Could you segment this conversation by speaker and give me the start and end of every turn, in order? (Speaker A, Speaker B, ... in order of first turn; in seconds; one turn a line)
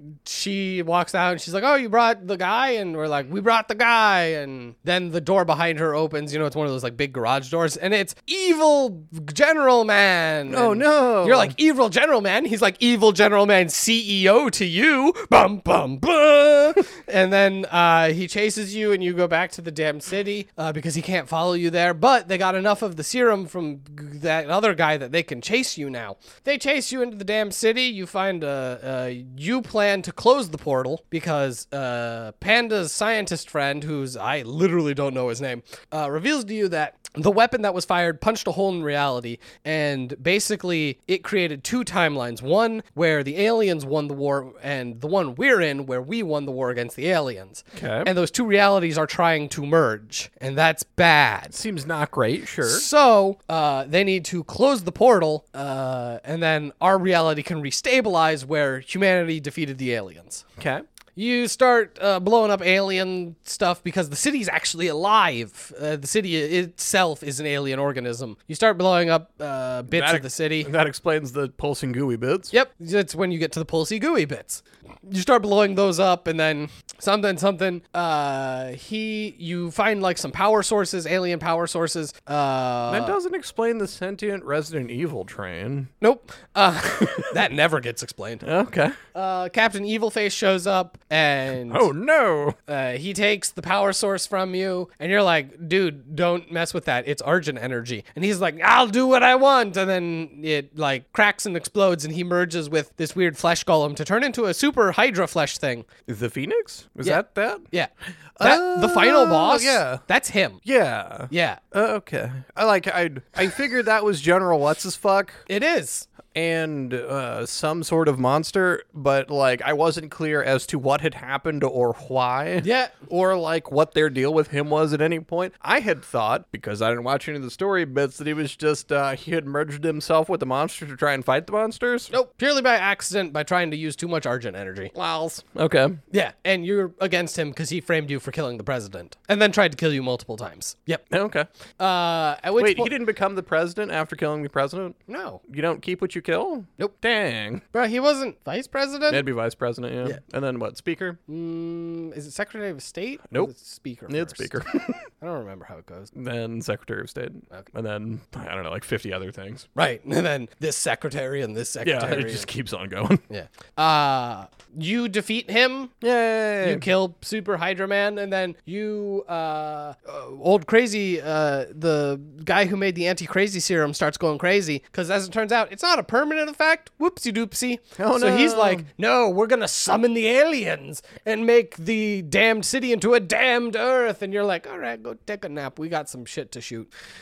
Speaker A: 0.2-51.6
Speaker B: 10.5-11.6
Speaker B: 47.7-48.1
Speaker B: 51.5-52.9
Speaker A: 52.6-60.5
Speaker B: 60.6-60.8
Speaker A: 61.2-70.7
Speaker B: 69.9-72.5
Speaker A: 72.5-83.2
Speaker B: 82.9-85.9
Speaker A: 86.0-88.4
Speaker B: 87.0-87.3
Speaker B: 88.4-89.0
Speaker A: 89.1-91.9
Speaker B: 91.7-92.6
Speaker A: 92.7-105.9
Speaker B: 106.1-107.7
Speaker A: 107.0-107.9
Speaker B: 108.4-110.0
Speaker A: 108.4-110.6
Speaker B: 110.7-115.4
Speaker A: 111.3-111.6
Speaker A: 115.5-116.1
Speaker B: 116.3-132.1
Speaker A: 122.6-123.0
Speaker A: 132.1-134.9
Speaker B: 134.9-136.0
Speaker A: 136.1-141.0
Speaker B: 141.1-141.5
Speaker A: 141.8-142.9
Speaker B: 142.6-147.6
Speaker A: 145.1-145.4
Speaker A: 147.7-149.2
Speaker B: 149.1-151.2
Speaker A: 151.3-154.5
Speaker B: 154.1-155.0
Speaker A: 155.2-156.1
Speaker B: 156.1-159.7
Speaker A: 159.8-162.5
Speaker B: 161.8-163.2
Speaker A: 163.3-165.9
Speaker B: 166.0-166.9
Speaker A: 166.6-186.9
Speaker B: 178.0-178.9